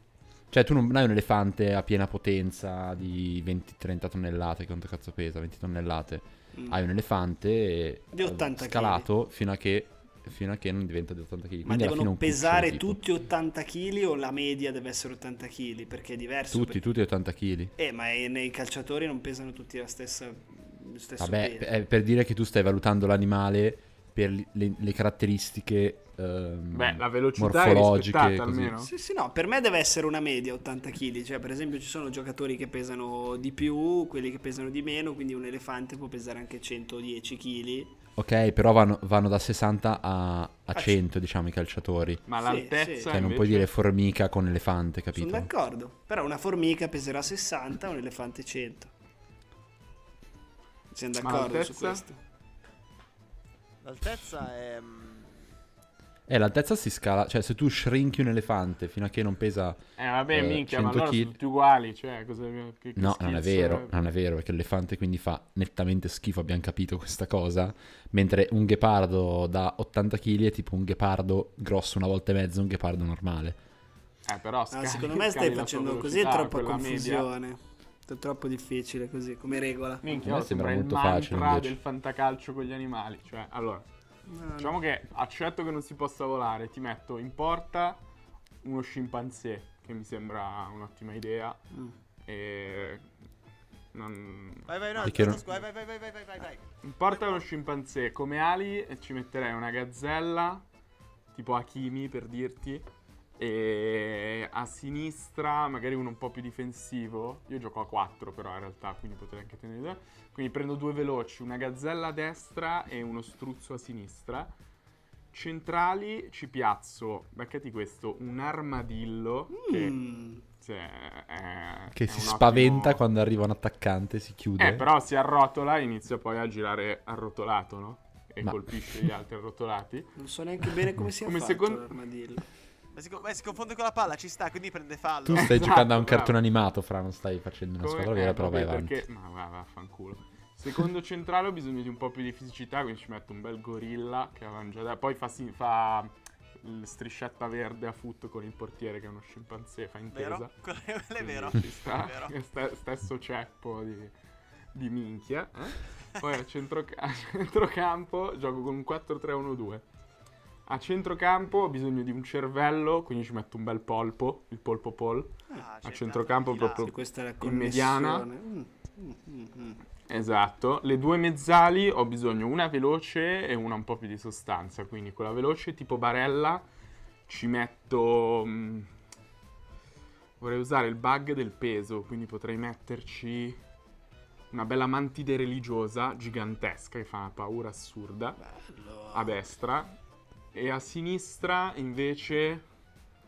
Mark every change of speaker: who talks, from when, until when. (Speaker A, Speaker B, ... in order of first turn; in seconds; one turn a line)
Speaker A: 0.5-13.0
Speaker B: 8.1-9.1
Speaker B: 11.6-16.8
Speaker A: 16.5-17.7
Speaker B: 17.8-21.7
Speaker A: 21.2-28.8
Speaker C: 26.7-28.9
Speaker B: 28.8-37.9
Speaker A: 38.2-42.2
Speaker C: 42.3-43.7
Speaker B: 42.5-43.1
Speaker A: 43.1-45.5
Speaker B: 45.1-48.9
Speaker B: 50.9-52.2
Speaker C: 51.2-52.0
Speaker D: 53.8-55.4
Speaker A: 56.3-61.3
Speaker C: 60.0-63.9
Speaker A: 63.0-73.6
Speaker C: 74.2-77.3
Speaker B: 74.7-80.2
Speaker C: 80.0-83.8
Speaker A: 80.2-81.8
Speaker B: 84.3-84.7
Speaker C: 84.6-88.0
Speaker C: 88.6-91.6
Speaker C: 92.2-93.0
Speaker C: 93.9-95.6
Speaker D: 94.7-97.4
Speaker A: 95.0-95.4
Speaker C: 96.8-100.6
Speaker C: 101.3-114.5
Speaker C: 115.3-120.0
Speaker B: 119.5-120.4
Speaker C: 120.6-123.0
Speaker A: 121.9-124.9
Speaker C: 124.6-130.1
Speaker A: 128.4-129.1
Speaker B: 130.2-132.4
Speaker C: 131.2-131.9
Speaker D: 132.9-135.6
Speaker A: 135.2-139.0
Speaker C: 135.3-136.4
Speaker C: 137.8-150.5
Speaker D: 150.1-152.3
Speaker C: 151.2-154.1
Speaker C: 154.7-159.8
Speaker C: 160.7-168.3
Speaker D: 165.5-166.9
Speaker B: 166.8-169.8
Speaker C: 170.1-176.7
Speaker C: 177.3-178.9
Speaker C: 180.4-183.6
Speaker C: 184.5-188.4
Speaker B: 188.4-189.3
Speaker C: 189.1-189.9
Speaker C: 190.5-192.6